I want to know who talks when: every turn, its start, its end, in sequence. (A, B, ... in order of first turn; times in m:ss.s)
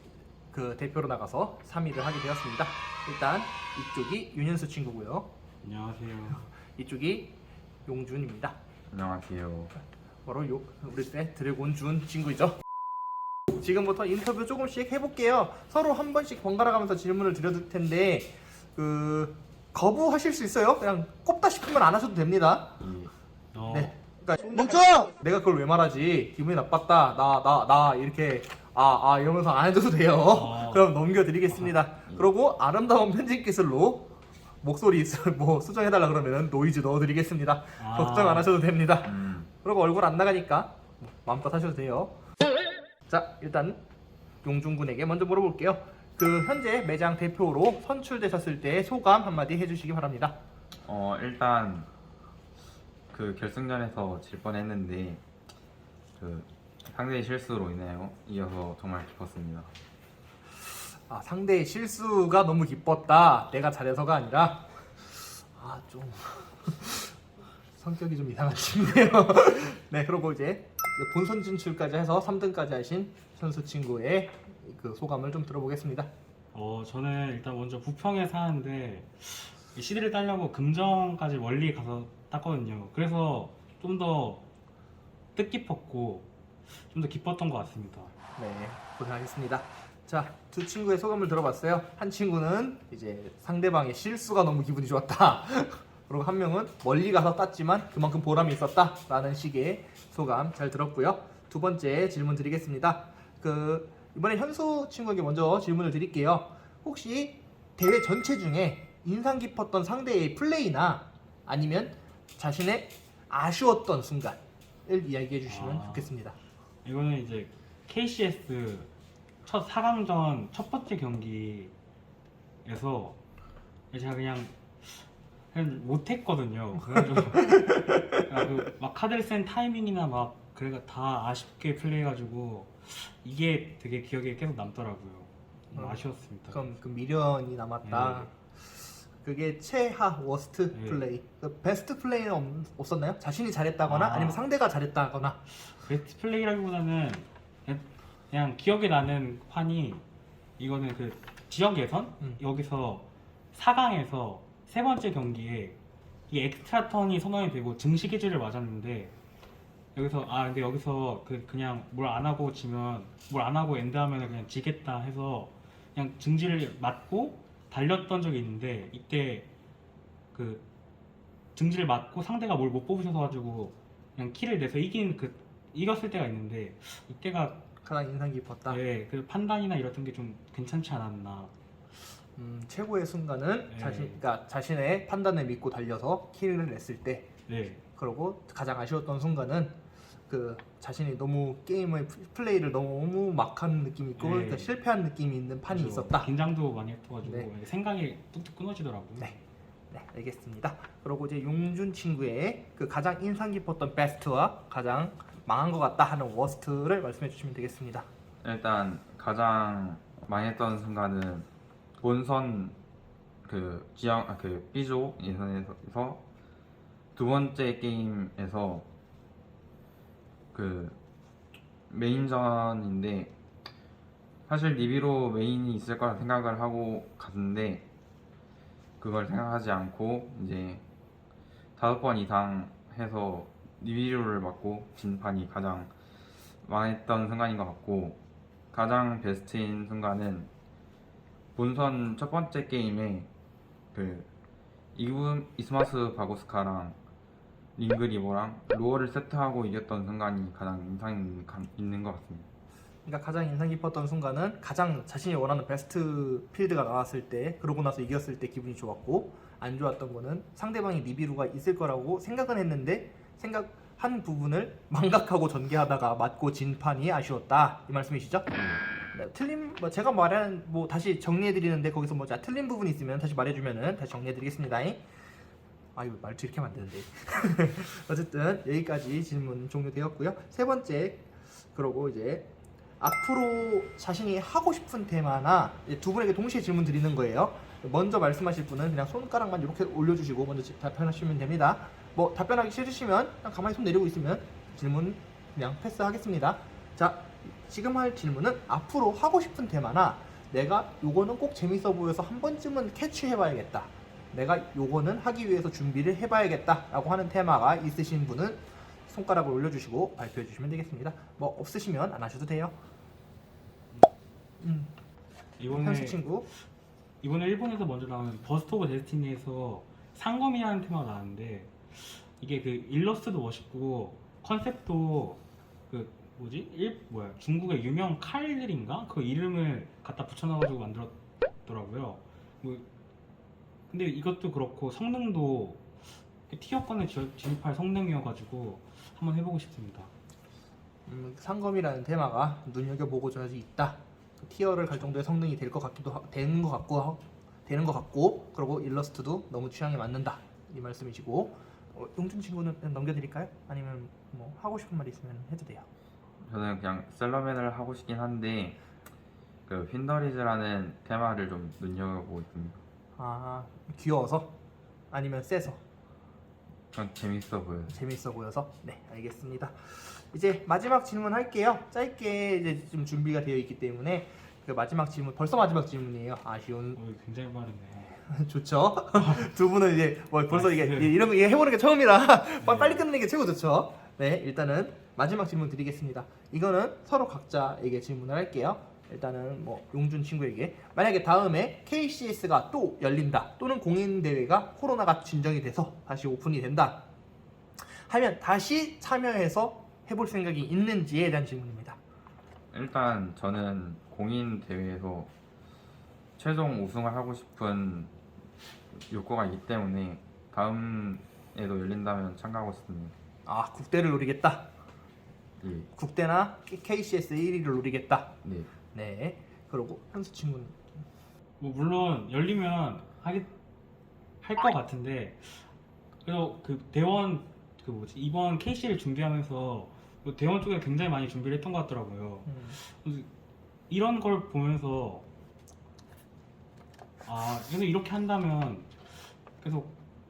0:00.5-0:05.3 A
0:05.6-0:06.5 B
0:06.5-0:08.6 A
0:08.9-0:09.7 C
0:10.3-0:12.6 A
0:13.6-0:22.8 A
0:22.8-0:23.1 C
0:23.5-0:23.9 B
0:23.7-0:34.1 A
0:30.3-0:31.0 B
0:34.6-0:42.2 A
0:37.8-0:38.5 B
0:39.0-0:39.5 C
0:43.1-0:43.8 A
0:44.4-0:50.4 A
0:50.8-0:51.9 C
0:53.1-0:55.2 C
0:56.2-0:59.7 C
1:01.1-1:07.2 A
1:07.7-1:16.1 A
1:16.5-1:24.4 B
1:25.4-1:26.3 B
1:26.9-1:28.1 B
1:28.4-1:56.4 A
1:55.5-1:56.1 B
1:56.8-1:58.9 B
1:59.4-2:01.7 B
2:02.6-2:03.2 B
2:03.9-2:16.7 B
2:06.9-2:08.4 A
2:15.7-2:25.4 A
2:17.8-2:18.3 B
2:20.7-2:21.0 B
2:23.9-2:24.4 B
2:25.6-2:30.0 B
2:30.6-2:35.8 B
2:36.3-2:39.1 B
2:40.0-2:49.5 B
2:50.3-2:50.6 B
2:51.6-2:57.6 B
2:57.8-2:58.8 A
2:58.7-3:01.5 B
3:02.4-3:07.3 A
3:03.7-3:04.2 B
3:07.5-3:07.8 B
3:08.0-3:16.3 A
3:14.2-3:14.8 B
3:15.7-3:19.4 B
3:17.2-3:17.5 A
3:19.9-3:28.1 A
3:28.4-3:31.5 C
3:32.0-3:32.8 C
3:33.4-3:36.2 C
3:37.2-3:38.9 C
3:40.5-3:41.0 C
3:41.9-3:43.3 C
3:44.5-3:47.8 C
3:49.0-3:50.8 C
3:51.8-3:55.9 C
3:56.6-3:58.2 C
3:58.7-4:00.5 C
4:01.6-4:03.3 C
4:03.9-4:04.3 C
4:05.0-4:07.0 C
4:07.8-4:12.5 C
4:13.0-4:28.5 A
4:29.1-4:35.0 A
4:36.0-4:42.5 A
4:43.0-5:12.8 A
5:14.6-5:14.9 A
5:15.6-5:16.4 B
5:15.7-5:16.5 A
5:17.2-5:32.9 B
5:33.9-5:35.9 B
5:36.5-5:40.1 B
5:41.1-5:55.9 A
5:56.4-5:58.8 C
5:59.7-6:02.8 C
6:03.2-6:04.6 A
6:05.1-6:05.8 A
6:06.9-6:08.0 C
6:07.9-6:17.0 A
6:17.0-6:18.2 B
6:18.3-6:37.0 A
6:19.2-6:19.5 B
6:20.5-6:21.2 B
6:22.6-6:23.0 B
6:38.1-6:42.0 A
6:42.7-6:45.3 C
6:46.4-6:48.1 C
6:49.1-6:53.1 C
6:53.5-6:54.7 A
6:55.6-6:55.9 C
6:55.9-6:58.4 A
6:58.4-6:58.7 C
6:58.9-7:00.8 A
7:01.6-7:03.5 B
7:04.4-7:05.7 B
7:06.2-7:13.3 B
7:12.5-7:12.8 A
7:13.9-7:15.3 B
7:17.2-7:19.9 B